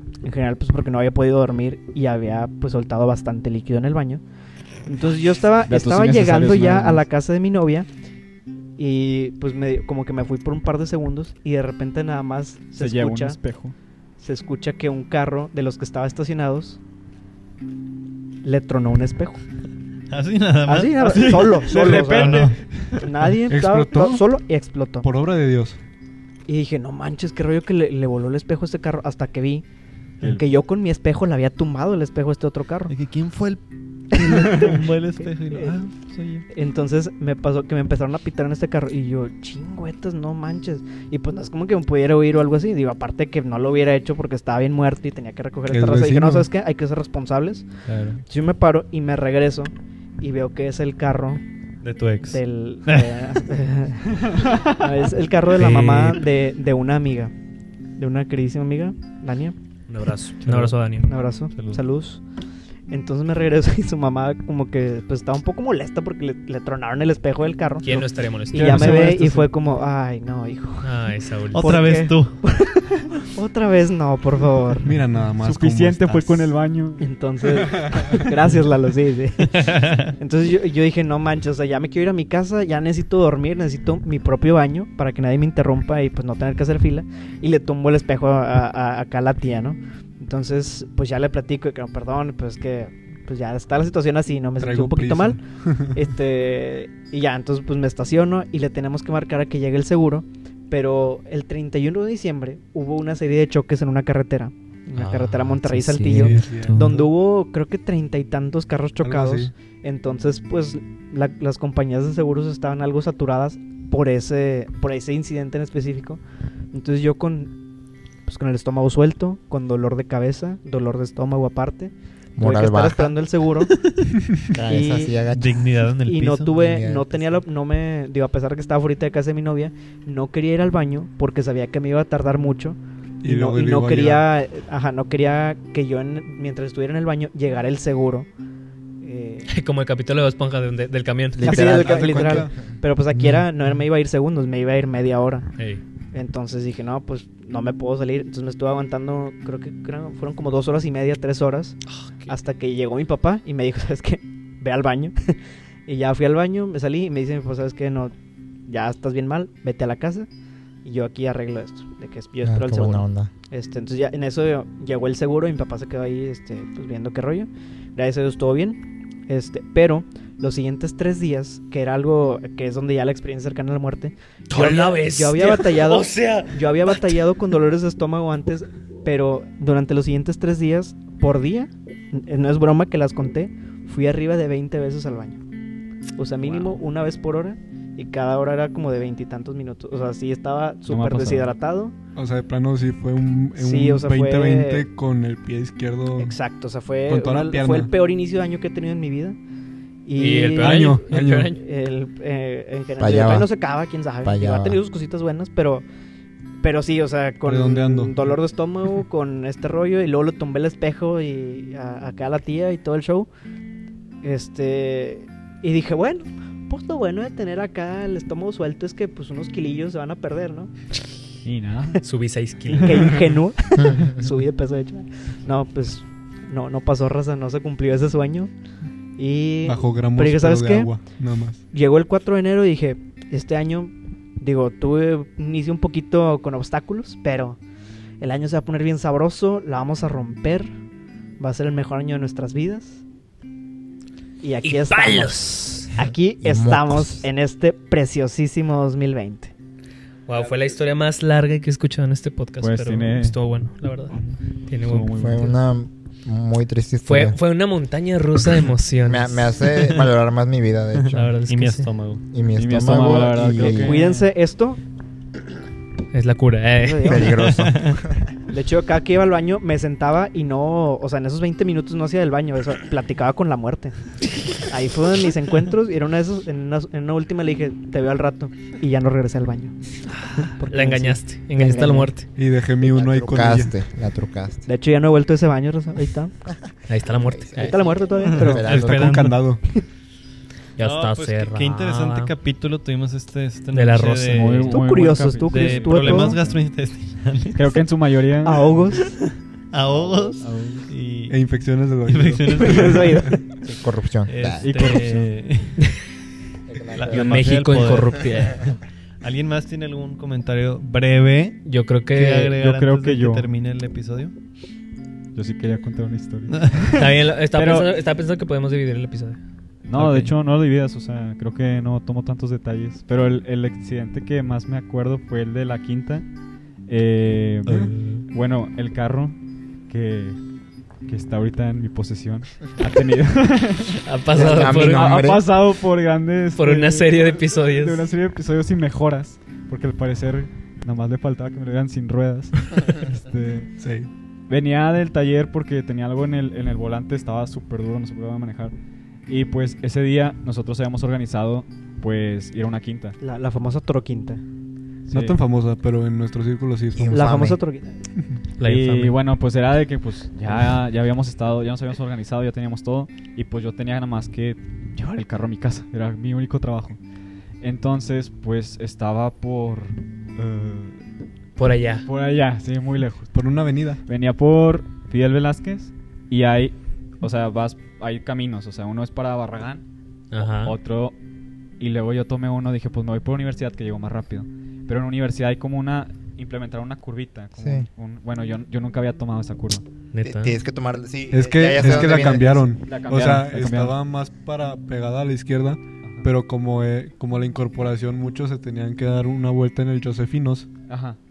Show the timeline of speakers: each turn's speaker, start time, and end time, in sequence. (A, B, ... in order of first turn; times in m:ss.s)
0:00.2-0:04.2 A
0:04.9-0:07.9 A
0:05.7-0:07.0 B
0:08.8-0:13.4 A
0:12.8-0:13.8 B
0:14.2-0:16.8 A
0:18.4-0:19.4 A
0:20.1-0:22.6 C
0:20.7-0:25.1 A
0:21.0-0:23.0 B
0:23.5-0:24.3 D
0:25.0-0:25.8 D
0:26.5-0:29.6 A
0:30.2-0:32.9 A
0:32.9-0:36.4 C
0:34.1-0:35.8 A
0:36.5-0:47.7 A
0:45.7-0:46.5 D
0:47.9-0:48.2 C
0:48.3-0:51.4 A
0:51.8-0:53.2 C
0:52.3-0:57.3 A
0:55.6-0:56.2 E
0:58.0-0:59.6 A
0:59.9-1:01.1 E
1:01.0-1:02.2 A
1:02.9-1:14.9 A
1:07.8-1:09.1 E
1:08.5-1:09.5 B
1:10.8-1:11.8 E
1:11.5-1:12.4 C
1:14.8-1:16.3 D
1:15.4-1:17.1 B
1:17.0-1:35.4 A
1:17.8-1:18.1 D
1:34.6-1:36.0 D
1:35.9-1:56.2 A
1:45.0-1:46.8 E
1:46.1-1:47.1 D
1:49.0-1:49.5 D
1:56.7-1:57.5 A
1:58.3-2:03.7 A
2:02.4-2:03.1 F
2:04.5-2:05.6 F
2:04.6-2:05.2 A
2:05.3-2:06.6 C
2:06.1-2:18.3 A
2:06.5-2:07.4 F
2:13.2-2:14.3 D
2:19.0-2:19.5 A
2:19.5-2:21.8 E
2:21.3-2:22.5 F
2:21.4-2:25.5 A
2:21.6-2:22.6 D
2:26.1-2:38.1 A
2:31.9-2:32.3 E
2:38.7-2:40.3 A
2:40.8-3:05.4 A
2:42.4-2:43.3 F
2:54.5-2:57.2 E
3:06.2-3:12.0 A
3:10.9-3:11.5 B
3:12.2-3:16.4 D
3:13.6-3:14.9 A
3:16.2-3:19.4 A
3:17.1-3:17.9 D
3:20.1-3:25.8 A
3:20.2-3:21.6 E
3:20.6-3:21.6 D
3:23.0-3:23.5 F
3:24.2-3:24.8 F
3:26.6-3:33.3 A
3:27.4-3:28.2 D
3:34.2-3:40.7 A
3:41.4-3:42.0 B
3:42.0-3:43.2 E
3:42.7-3:48.5 A
3:49.2-3:50.9 A
3:49.6-3:51.6 D
3:51.7-3:57.6 A
3:58.2-4:00.7 A
4:01.4-4:03.0 A
4:04.4-4:09.5 A
4:04.6-4:06.0 E
4:06.4-4:07.2 F
4:10.3-4:15.2 E
4:12.6-4:13.4 B
4:14.8-4:15.5 B
4:15.0-4:17.4 F
4:17.0-4:19.9 E
4:19.1-4:21.6 F
4:21.1-4:21.9 E
4:21.5-4:22.2 C
4:22.3-4:24.0 F
4:22.5-4:24.3 B
4:23.6-4:24.8 A
4:26.1-4:27.6 E
4:26.8-4:27.5 A
4:27.0-4:28.2 F
4:28.5-4:39.7 A
4:40.1-4:42.3 E
4:40.4-4:42.1 A
4:41.6-4:42.1 F
4:42.3-4:43.7 D
4:42.8-4:44.7 F
4:44.7-4:46.3 A
4:46.9-4:47.8 E
4:47.3-4:49.3 F
4:47.6-4:48.7 A
4:48.2-4:49.5 C
4:48.5-4:49.6 D
4:50.8-4:52.3 E
4:50.8-4:54.8 C
4:53.7-4:54.7 E
4:54.3-4:56.6 B
4:54.7-4:56.4 A
4:55.5-4:57.8 C
4:57.6-4:58.8 B
4:58.4-4:59.2 A
4:59.7-5:01.4 C
5:00.0-5:00.4 F
5:00.4-5:00.9 B
5:01.3-5:03.4 D
5:02.0-5:05.8 C
5:02.6-5:03.4 A
5:03.8-5:04.7 F
5:04.7-5:05.3 B
5:06.7-5:07.5 F
5:06.9-5:14.3 C
5:07.1-5:08.8 E
5:11.6-5:12.5 E
5:12.4-5:13.5 B
5:15.4-5:17.9 B
5:16.5-5:16.9 C
5:17.0-5:19.4 E
5:19.8-5:26.3 B
5:19.9-5:20.3 C
5:26.9-5:29.4 B
5:27.8-5:28.2 E
5:29.9-5:30.4 B
5:31.1-5:43.7 B
5:34.0-5:35.3 E
5:34.3-5:35.4 F
5:36.6-5:38.1 E
5:43.8-5:44.1 D
5:44.5-5:48.7 B
5:49.3-5:53.2 B
5:53.2-5:54.4 A
5:55.1-5:55.4 B
5:55.1-5:57.3 D
5:57.0-5:57.6 F
5:57.1-5:58.0 A
5:58.6-5:59.2 E
5:58.6-6:07.0 B
6:07.6-6:11.0 B
6:11.6-6:12.1 E
6:12.0-6:13.4 B
6:13.3-6:14.0 D
6:14.0-6:19.8 B
6:20.3-6:20.7 E
6:20.5-6:21.2 B
6:21.8-6:29.8 B
6:27.6-6:27.9 F
6:30.1-6:30.6 E
6:30.2-6:32.7 F
6:31.3-6:40.7 D
6:31.8-6:34.0 B
6:36.0-6:36.3 B
6:40.9-6:41.2 B